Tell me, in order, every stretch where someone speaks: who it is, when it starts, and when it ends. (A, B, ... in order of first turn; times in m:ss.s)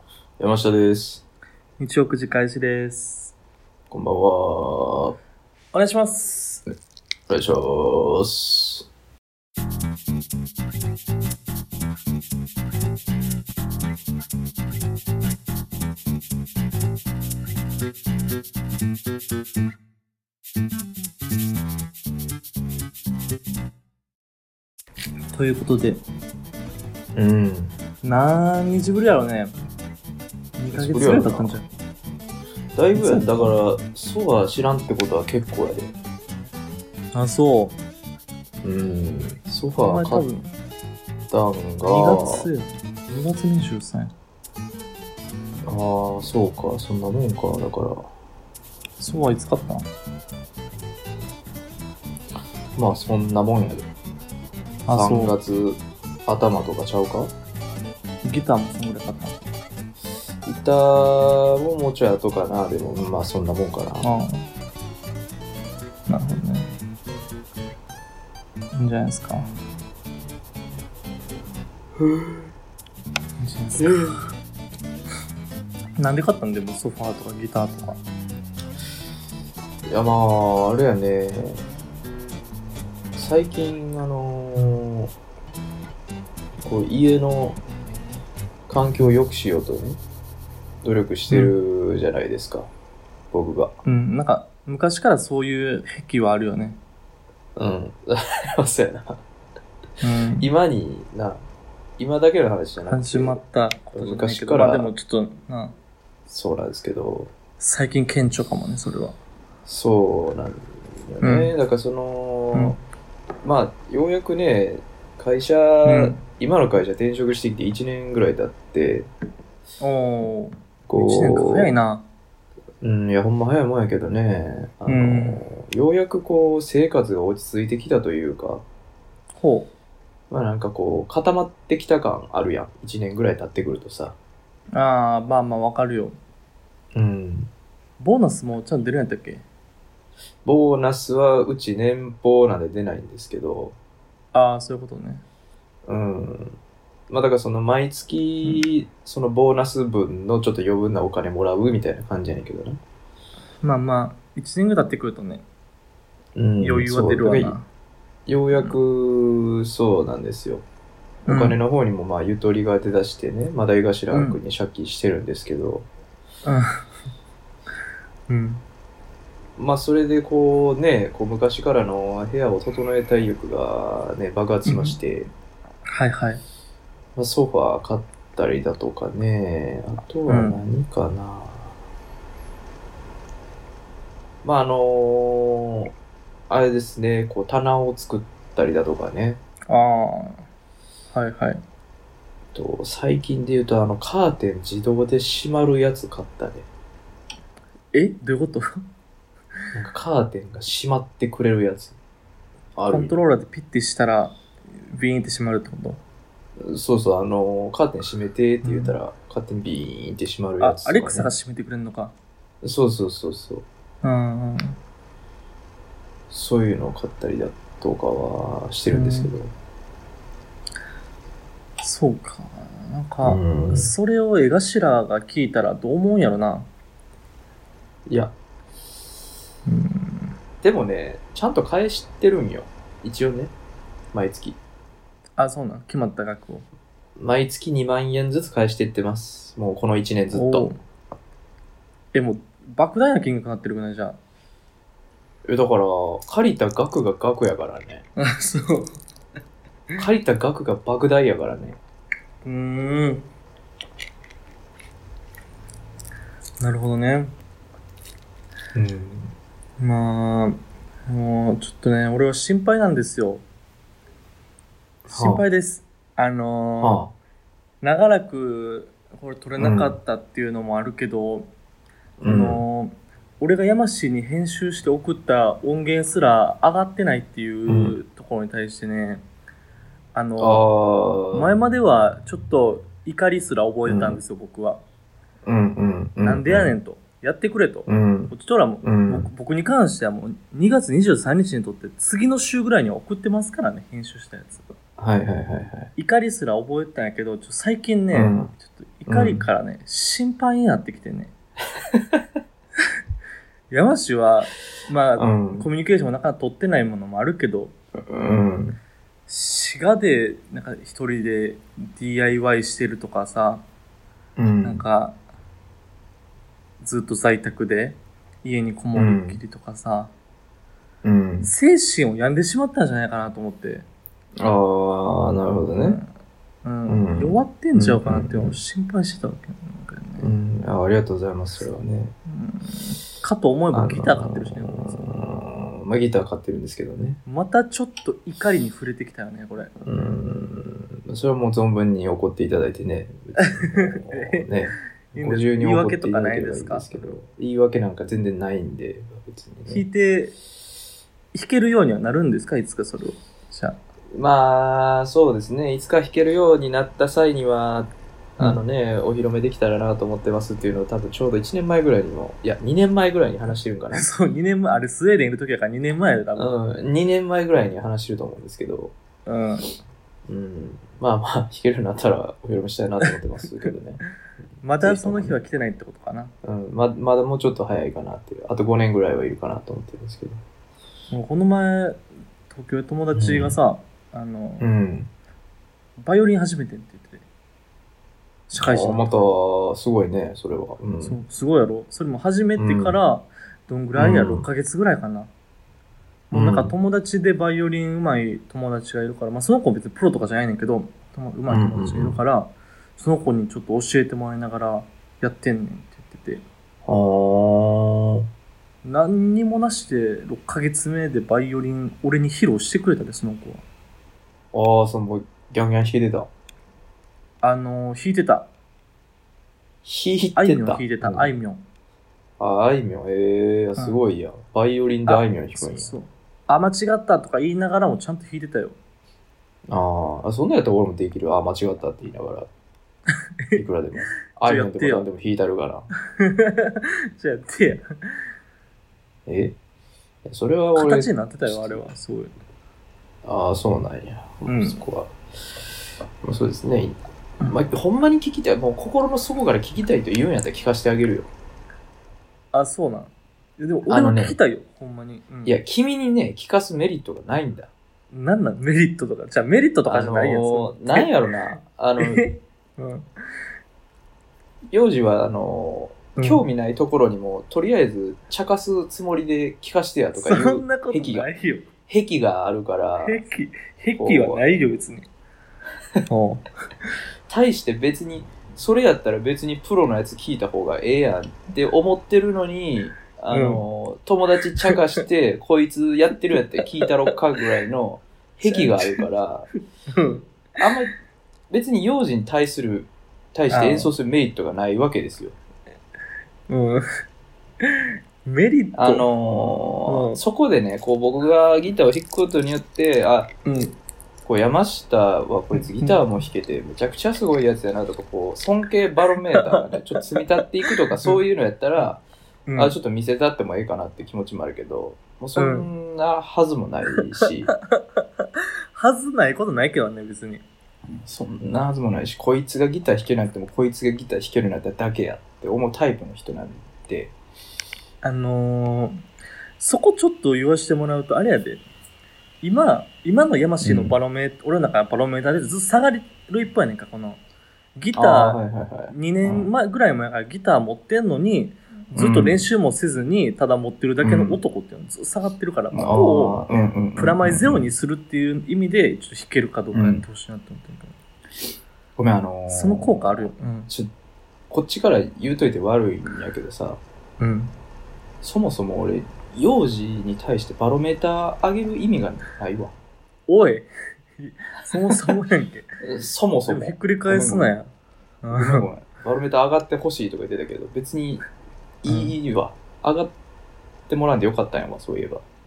0:00.4-0:01.2 A
0:01.8-0:03.3 B
0:03.9-0:05.2 A
0:05.7-0:06.6 B
0:07.3-0:08.9 A
0:25.3-0:26.0 B
0:27.1-0:27.7 A
0:28.0-0:29.5 B
0:30.6-0:31.7 B
0:30.7-0:31.6 A
0:32.8-0:35.9 A
0:33.0-0:33.5 B
0:37.1-0:37.8 B
0:38.6-0:40.3 A
0:39.8-0:40.5 B
0:41.3-0:42.4 A
0:41.9-0:44.1 B
0:45.7-0:48.1 A
0:49.0-0:49.9 B
0:52.8-0:53.9 A
0:54.9-0:55.4 B
0:54.9-0:57.3 A
0:58.2-0:59.4 B
1:00.4-1:04.1 A
1:04.0-1:04.5 B
1:06.1-1:06.7 B
1:08.7-1:09.5 B
1:12.0-1:12.4 A
1:13.4-1:14.2 B
1:13.8-1:14.2 A
1:16.0-1:18.0 B
1:19.9-1:21.6 A
1:23.2-1:25.1 A
1:26.6-1:27.6 A
1:28.7-1:30.0 A
1:30.8-1:32.7 A
1:33.3-1:33.8 A
1:33.8-1:36.8 B
1:37.6-1:39.2 A
1:40.0-1:40.5 B
1:40.4-1:41.4 A
1:42.0-1:43.4 A
1:42.9-1:45.8 B
1:43.9-1:44.9 A
1:46.3-1:47.3 A
1:47.6-1:49.2 B
1:49.7-1:52.8 A
1:51.2-1:51.5 B
1:52.5-1:52.8 B
1:53.4-1:59.1 A
1:55.8-1:56.2 B
1:59.8-2:02.1 B
2:00.9-2:01.7 A
2:02.8-2:08.6 A
2:04.9-2:05.4 B
2:09.4-2:09.7 B
2:10.3-2:14.2 A
2:14.7-2:16.2 B
2:16.9-2:17.5 A
2:18.0-2:19.4 B
2:20.4-2:23.8 A
2:24.3-2:25.2 B
2:25.9-2:26.6 A
2:27.1-2:32.8 A
2:33.6-2:35.4 B
2:36.4-2:37.6 A
2:36.6-2:37.7 B
2:38.3-2:40.7 A
2:41.3-2:41.6 B
2:41.3-2:45.9 A
2:44.1-2:44.4 B
2:46.4-2:46.8 B
2:48.3-2:48.6 B
2:49.6-2:55.3 A
2:54.6-2:55.0 B
2:55.9-2:56.4 B
2:57.2-3:01.8 A
3:00.3-3:00.6 B
3:04.4-3:05.9 A
3:06.5-3:09.4 A
3:09.7-3:10.4 B
3:11.1-3:11.6 B
3:12.5-3:16.7 A
3:17.9-3:18.8 B
3:19.7-3:22.0 A
3:22.8-3:23.2 A
3:22.9-3:26.0 B
3:26.6-3:31.3 A
3:28.6-3:29.0 B
3:30.6-3:32.2 B
3:32.6-3:33.7 A
3:34.0-3:34.8 B
3:36.3-3:39.5 A
3:38.9-3:39.3 B
3:41.8-3:46.7 B
3:43.2-3:43.9 A
3:48.1-3:48.4 A
3:49.7-3:50.4 B
3:50.6-3:53.5 A
3:54.1-3:54.6 A
3:55.4-3:56.7 B
3:57.2-4:00.7 A
4:00.3-4:00.8 B
4:02.1-4:04.2 B
4:05.5-4:08.0 A
4:08.2-4:09.0 B
4:10.0-4:11.8 A
4:12.4-4:13.3 B
4:16.6-4:17.3 B
4:18.8-4:19.4 A
4:19.8-4:23.4 B
4:25.0-4:25.4 A
4:25.1-4:27.0 B
4:26.8-4:27.1 A
4:27.8-4:31.5 B
4:29.6-4:30.0 A
4:32.2-4:32.6 A
4:32.2-4:39.2 B
4:37.7-4:38.0 A
4:40.2-4:40.7 B
4:40.4-4:41.5 A
4:41.3-4:44.8 B
4:43.9-4:44.2 A
4:45.4-4:46.7 A
4:46.2-4:54.7 B
4:47.9-4:49.3 A
4:55.0-4:55.9 A
4:56.0-5:01.3 B
4:58.1-4:58.5 A
4:59.1-4:59.5 A
5:03.7-5:07.8 B
5:05.2-5:05.7 A
5:08.1-5:08.8 A
5:09.3-5:13.6 B
5:14.4-5:14.8 A
5:14.6-5:15.2 B
5:16.8-5:20.1 B
5:19.0-5:19.4 A
5:21.0-5:21.5 A
5:21.4-5:23.9 B
5:24.4-5:26.0 A
5:25.8-5:26.1 B
5:26.6-5:30.3 B
5:26.9-5:28.6 A
5:30.2-5:32.2 A
5:32.3-5:35.2 B
5:33.7-5:37.2 A
5:37.3-5:39.7 B
5:39.8-5:49.8 A
5:43.4-5:44.5 B
5:45.1-5:47.2 B
5:49.7-5:50.4 B
5:51.3-5:53.8 B
5:54.1-6:04.1 A
6:03.9-6:06.6 B
6:06.4-6:09.0 A
6:09.3-6:09.7 B
6:10.3-6:14.0 A
6:14.6-6:16.3 B
6:14.8-6:15.4 A
6:16.4-6:20.4 A
6:21.1-6:24.7 B
6:23.1-6:23.6 A
6:24.6-6:25.1 A
6:26.0-6:27.2 B
6:28.5-6:29.3 B
6:28.6-6:31.2 A
6:31.0-6:35.3 B
6:32.6-6:33.0 A
6:34.0-6:34.5 A
6:36.3-6:46.4 B
6:36.3-6:36.8 A
6:41.5-6:42.2 A
6:46.8-6:48.3 A
6:48.8-6:53.6 B
6:54.5-6:56.3 A
6:57.4-6:58.5 B
6:59.8-7:01.3 A
7:00.4-7:01.6 B
7:02.4-7:05.9 A
7:05.1-7:08.8 B
7:09.7-7:12.5 A
7:13.6-7:15.9 A
7:14.4-7:15.1 B
7:16.1-7:17.8 B
7:19.3-7:19.6 A
7:20.2-7:21.8 A
7:20.8-7:22.3 B
7:23.2-7:25.1 A
7:24.5-7:24.8 B
7:26.2-7:31.3 A
7:32.5-7:35.6 B
7:33.9-7:34.4 A
7:35.4-7:37.7 A
7:38.1-7:41.1 B
7:39.9-7:42.2 A
7:42.0-7:43.1 B
7:44.7-7:51.3 A
7:46.2-7:46.4 B
7:50.2-7:51.7 B
7:51.9-7:53.2 A
7:53.0-7:55.1 B
7:54.0-7:54.6 A
7:56.1-7:56.4 B
7:57.3-8:09.5 A
8:03.3-8:03.6 B
8:08.4-8:09.0 B
8:09.9-8:10.3 B
8:10.6-8:10.9 A
8:11.5-8:15.4 A
8:13.5-8:13.9 B
8:16.5-8:16.8 B
8:17.6-8:19.1 B
8:18.8-8:23.3 A
8:19.9-8:20.2 B
8:23.4-8:23.8 B
8:24.2-8:32.0 A
8:25.5-8:26.0 B
8:29.2-8:30.2 B
8:32.5-8:32.8 B
8:32.6-8:37.5 A
8:35.4-8:35.7 B
8:37.7-8:40.4 B
8:41.0-8:47.1 A
8:48.0-8:49.0 B
8:49.6-8:51.6 B
8:52.4-8:57.2 B
8:53.6-8:54.0 A
8:57.8-9:06.4 B
8:58.0-8:59.5 A
9:01.9-9:02.4 A
9:04.0-9:04.4 A
9:05.7-9:07.7 A
9:07.0-9:11.0 B
9:09.7-9:10.0 A
9:12.0-9:13.9 A
9:12.5-9:13.7 B
9:14.5-9:16.8 A
9:17.2-9:17.6 B
9:18.2-9:22.8 A
9:23.3-9:25.7 B
9:25.8-9:27.6 A
9:26.5-9:27.7 B
9:28.2-9:28.7 B
9:28.3-9:31.2 A
9:31.8-9:33.1 A
9:31.9-9:32.2 B
9:33.9-9:35.2 A